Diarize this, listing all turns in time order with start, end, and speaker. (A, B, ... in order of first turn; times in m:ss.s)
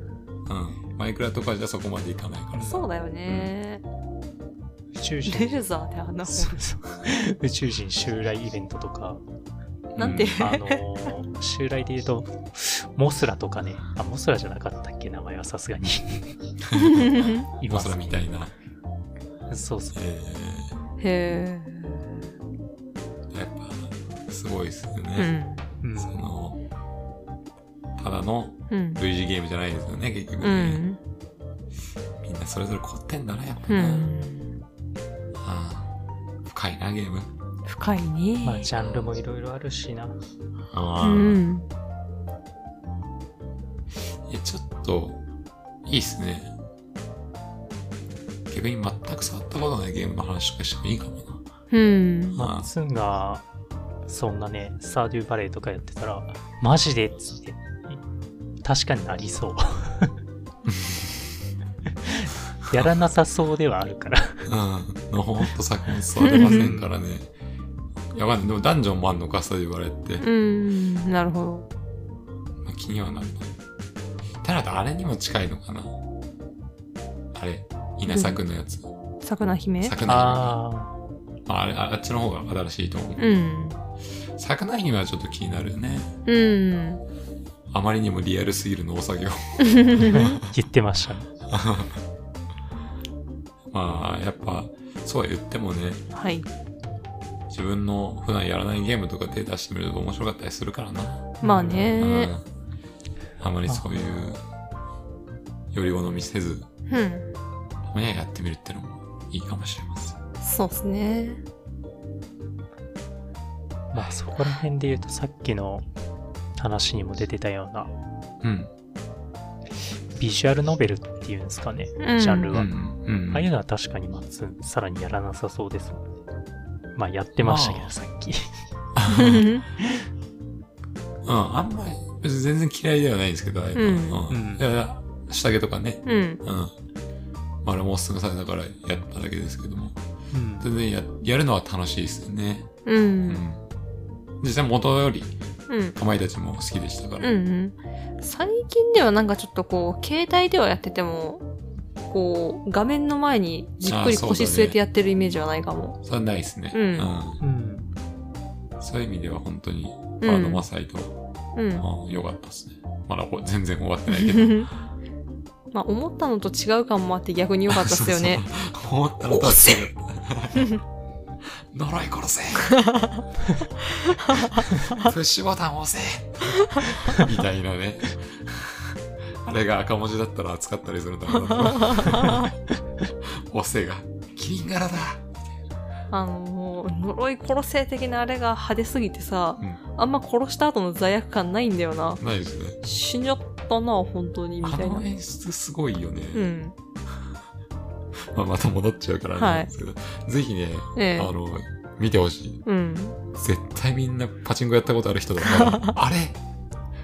0:00.5-0:03.5 A
0:02.5-0:02.9 B
0:02.6-0:03.8 C
0:04.9-0:05.6 B
0:05.2-0:06.7 C
0:06.2-0:09.2 B
0:09.9-0:10.4 A
0:10.0-0:10.8 C
0:10.3-0:16.4 B
0:16.6-0:18.5 A
0:16.8-0:17.5 C
0:17.5-0:18.3 B
0:19.5-0:20.0 B
0:19.9-0:20.7 A
0:21.0-0:22.1 C
0:23.3-0:25.3 A
0:25.2-0:25.6 C
0:25.8-0:26.2 B
0:26.0-0:26.6 A
0:28.0-0:30.8 A
0:28.7-0:29.0 C
0:30.4-0:31.0 C
0:32.2-0:34.1 A
0:33.7-0:34.4 C
0:35.4-0:35.9 A
0:36.4-0:37.3 A
0:37.6-0:38.7 C
0:38.4-0:40.2 B
0:40.7-0:41.4 A
0:41.0-0:41.7 C
0:44.2-0:45.2 A
0:45.8-0:46.5 A
0:48.5-0:51.4 A
0:51.7-0:52.4 C
0:52.3-0:53.4 B
0:52.4-0:52.7 A
0:54.1-0:58.0 B
0:58.6-1:00.1 B
1:00.7-1:01.2 A
1:01.9-1:04.5 B
1:04.4-1:07.3 A
1:06.2-1:06.7 C
1:06.4-1:06.9 B
1:08.1-1:10.2 A
1:10.2-1:11.7 C
1:12.6-1:13.5 A
1:14.4-1:16.0 A
1:17.3-1:18.9 A
1:18.1-1:18.4 C
1:19.2-1:20.0 C
1:19.8-1:20.6 A
1:20.0-1:20.9 B
1:21.4-1:23.3 A
1:23.2-1:23.8 C
1:24.4-1:26.2 A
1:26.2-1:27.0 C
1:27.7-1:30.5 A
1:29.6-1:30.2 C
1:30.0-1:31.3 B
1:31.5-1:32.0 A
1:33.7-1:36.0 A
1:36.1-1:36.4 C
1:37.5-1:41.4 A
1:41.4-1:42.0 B
1:41.4-1:42.3 C
1:42.0-1:42.4 A
1:43.4-1:44.4 A
1:45.7-1:46.7 A
1:46.9-1:47.3 C
1:47.8-1:50.2 A
1:50.4-1:51.4 C
1:53.9-1:55.8 B
1:56.6-1:57.9 B
1:58.4-1:58.7 A
2:00.2-2:02.7 B
2:02.0-2:02.5 C
2:02.5-2:03.5 A
2:03.3-2:06.0 B
2:07.0-2:08.5 B
2:07.4-2:07.9 A
2:08.9-2:09.5 A
2:09.1-2:09.6 C
2:11.2-2:16.7 A
2:13.8-2:14.2 C
2:14.3-2:14.6 B
2:16.0-2:16.4 C
2:17.6-2:20.0 A
2:20.3-2:20.7 B
2:20.6-2:22.7 A
2:22.8-2:23.4 C
2:23.2-2:23.6 A
2:24.4-2:25.3 A
2:25.7-2:26.0 C
2:25.9-2:27.3 A
2:27.2-2:31.4 C
2:32.1-2:36.0 C
2:33.8-2:34.8 A
2:36.0-2:37.4 A
2:36.7-2:37.1 C
2:37.4-2:37.9 B
2:38.8-2:41.2 A
2:40.2-2:40.6 C
2:41.5-2:41.8 C
2:41.8-2:44.7 A
2:44.1-2:44.7 C
2:45.7-2:48.4 C
2:47.7-2:50.7 A
2:49.3-2:49.8 C
2:51.7-2:52.9 A
2:54.3-3:02.5 A
2:54.3-2:54.6 C
3:01.6-3:02.5 C
3:03.2-3:05.2 A
3:06.1-3:12.2 C
3:12.2-3:12.8 A
3:12.8-3:15.0 C
3:14.6-3:16.5 A
3:16.3-3:16.7 C
3:18.3-3:22.6 A
3:19.4-3:19.7 C
3:21.0-3:21.3 C
3:22.6-3:23.2 C
3:23.3-3:26.4 A
3:25.6-3:25.9 C